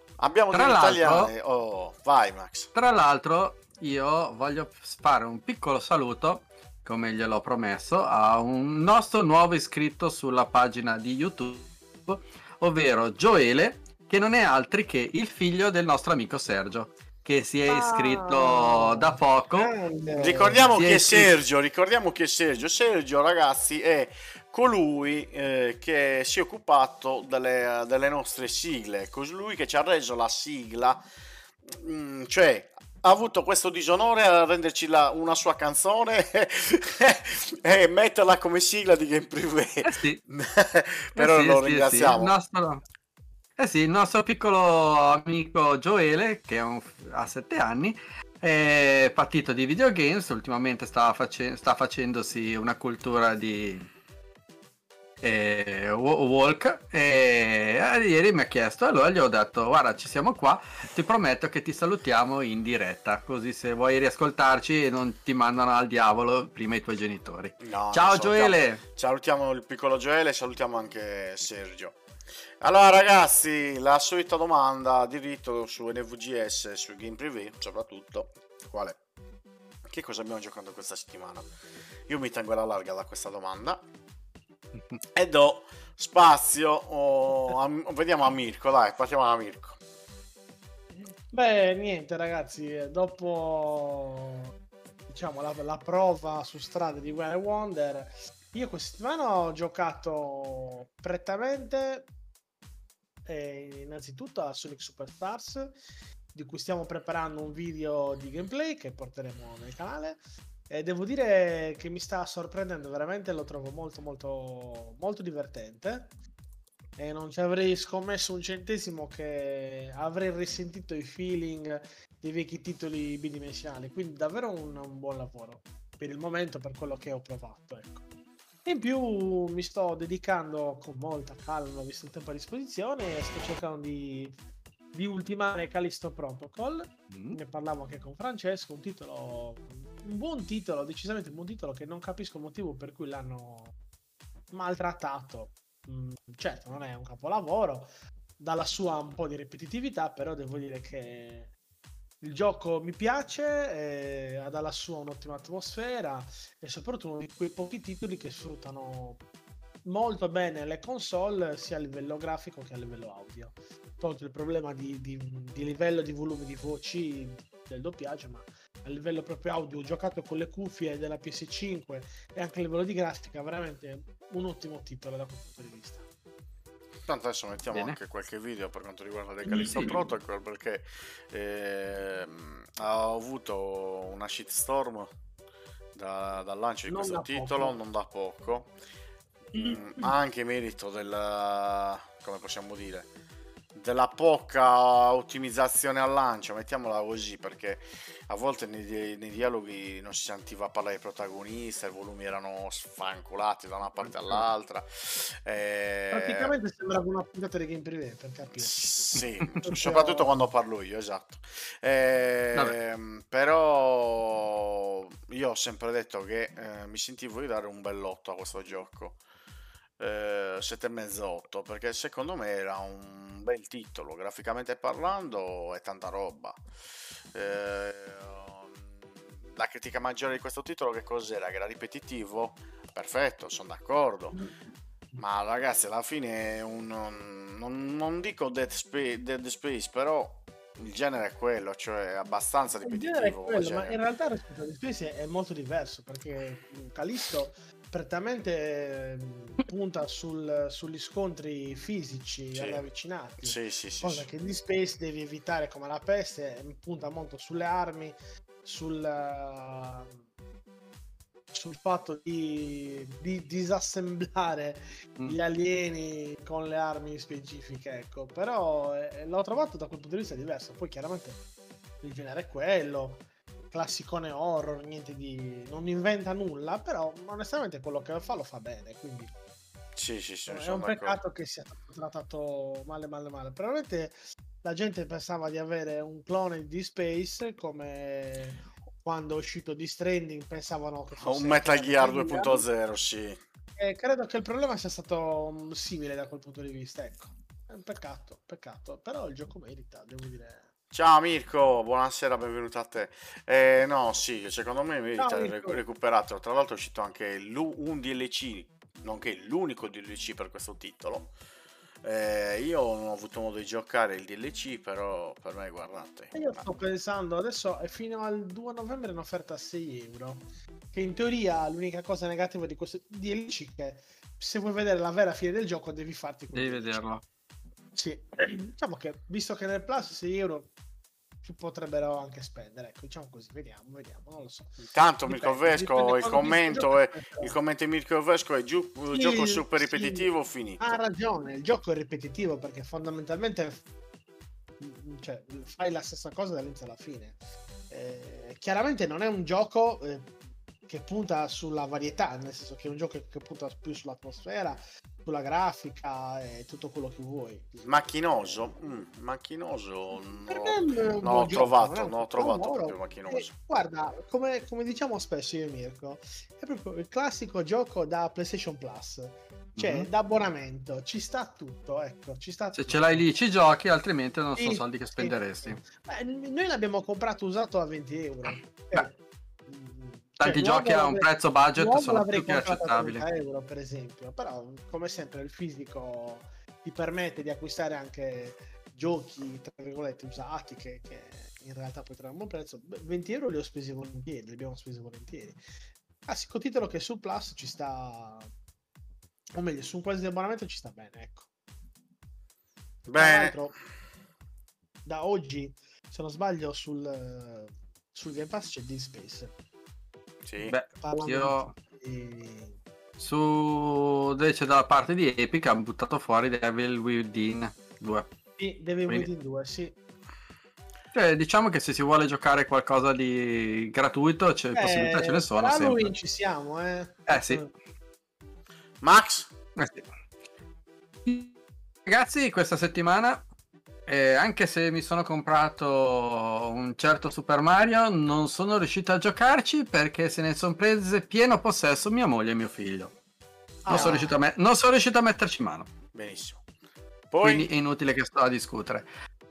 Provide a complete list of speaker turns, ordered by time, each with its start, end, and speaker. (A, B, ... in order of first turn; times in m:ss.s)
0:00.2-0:02.7 A
0:00.5-0:01.3 B
0:02.8-0:19.7 B
0:17.7-0:20.7 C
0:20.2-0:31.0 A
0:20.8-0:21.3 B
0:31.7-0:42.3 A
0:39.8-0:40.2 B
0:41.2-0:42.8 B
0:43.6-0:53.9 B
0:55.2-1:08.8 B
1:07.6-1:12.0 A
1:12.6-1:19.0 A
1:19.9-1:21.5 A
1:22.1-1:23.8 A
1:25.2-1:29.8 A
1:30.9-1:34.5 C
1:35.1-1:42.1 C
1:43.3-1:45.8 C
1:46.3-1:56.1 C
1:57.0-2:08.0 C
2:08.6-2:14.3 C
2:14.9-2:23.7 C
2:17.1-2:17.4 B
2:24.5-2:31.5 C
2:32.2-2:39.2 C
2:39.9-2:56.0 C
2:57.1-3:05.1 A
2:57.7-2:58.0 B
2:59.6-3:00.0 B
3:06.0-3:08.7 A
3:06.9-3:07.8 C
3:09.5-3:13.1 A
3:13.7-3:26.5 A
3:24.1-3:24.4 B
3:26.1-3:28.9 C
3:28.6-3:39.2 A
3:29.6-3:30.5 C
3:40.0-3:46.6 A
3:47.3-3:54.4 A
3:55.2-4:04.0 A
4:02.8-4:20.2 C
4:12.5-4:12.8 A
4:13.4-4:14.3 A
4:21.5-4:31.4 C
4:32.0-4:39.3 C
4:40.0-4:41.2 A
4:40.5-4:52.6 C
4:51.2-4:53.4 A
4:53.8-5:00.7 C
5:00.9-5:11.3 A
5:05.2-5:05.8 C
5:12.0-5:16.6 A
5:16.3-5:27.0 C
5:26.5-5:27.2 B
5:28.0-5:30.7 C
5:31.4-5:37.6 C
5:34.9-5:40.8 A
5:39.1-5:43.8 C
5:44.8-5:47.4 C
5:47.9-5:50.3 C
5:50.9-5:57.7 C
5:57.8-6:03.5 A
6:00.5-6:13.2 C
6:09.8-6:10.1 B
6:12.8-6:15.8 B
6:14.6-6:35.6 C
6:20.4-6:23.2 B
6:36.3-6:38.5 C
6:39.6-6:41.5 C
6:43.1-6:43.6 A
6:43.1-6:43.7 C
6:45.0-6:49.5 C
6:50.4-6:50.7 A
6:50.6-6:51.7 B
6:51.0-6:52.8 C
6:53.2-6:58.3 B
6:58.6-7:00.0 C
7:01.1-7:06.1 B
7:04.7-7:07.7 C
7:07.3-7:07.6 B
7:09.0-7:09.5 A
7:09.8-7:10.0 B
7:11.2-7:11.5 B
7:12.0-7:13.4 B
7:14.1-7:23.1 B
7:23.8-7:24.4 C
7:23.9-7:24.2 A
7:23.9-7:25.9 B
7:26.1-7:26.6 A
7:27.3-7:27.7 A
7:27.4-7:29.1 B